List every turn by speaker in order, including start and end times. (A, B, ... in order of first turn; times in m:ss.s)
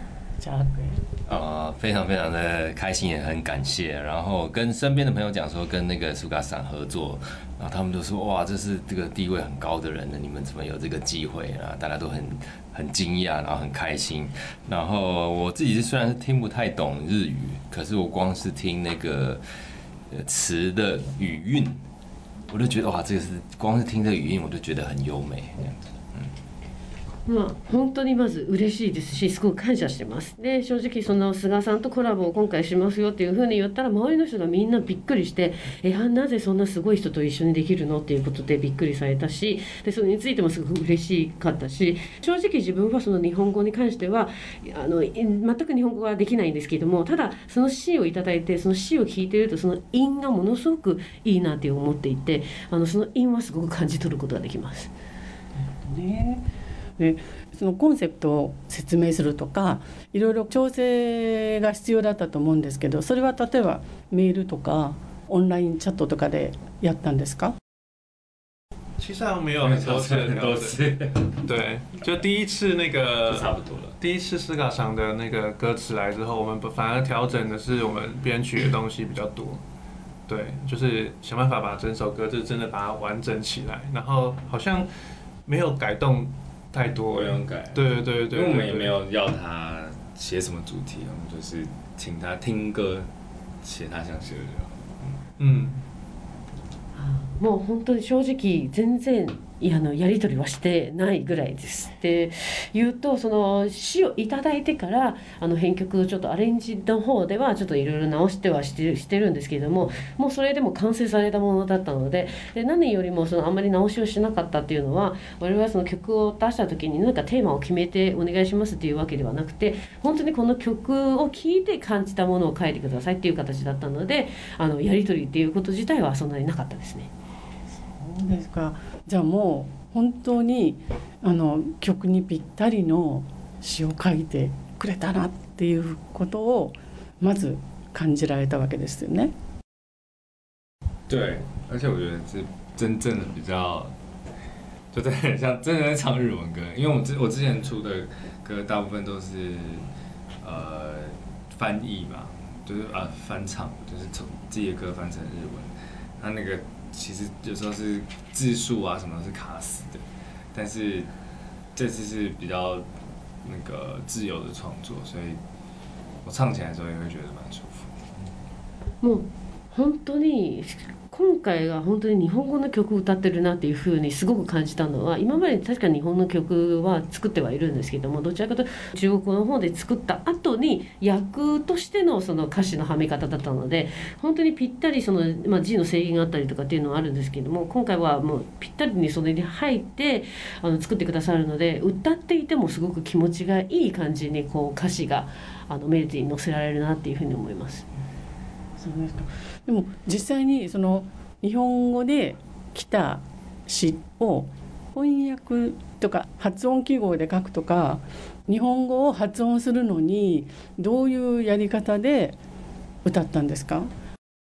0:00.4-0:01.0 A
0:01.3-0:19.4 B
0:20.1-0:21.8 B
0:22.5-0:26.3 B
0:27.3-0:54.9 C
0:55.6-0:56.4 A
0:57.0-1:07.6 A
1:09.0-1:10.8 D
1:09.6-1:11.3 E
1:11.3-1:19.6 D
1:13.3-1:14.0 E
1:20.3-1:24.9 D
1:25.5-1:29.0 D
1:27.1-1:33.1 E
1:33.6-1:35.2 E
1:35.4-1:35.8 D
1:37.0-2:07.1 C
2:07.8-2:19.3 A
2:21.1-2:23.9 E
2:24.9-2:29.9 E
2:30.4-2:41.1 E
2:41.8-2:42.9 E
2:43.4-2:45.4 E
2:46.2-2:48.0 E
2:49.0-3:17.9 C
3:18.8-3:32.4 A
3:33.0-3:33.9 A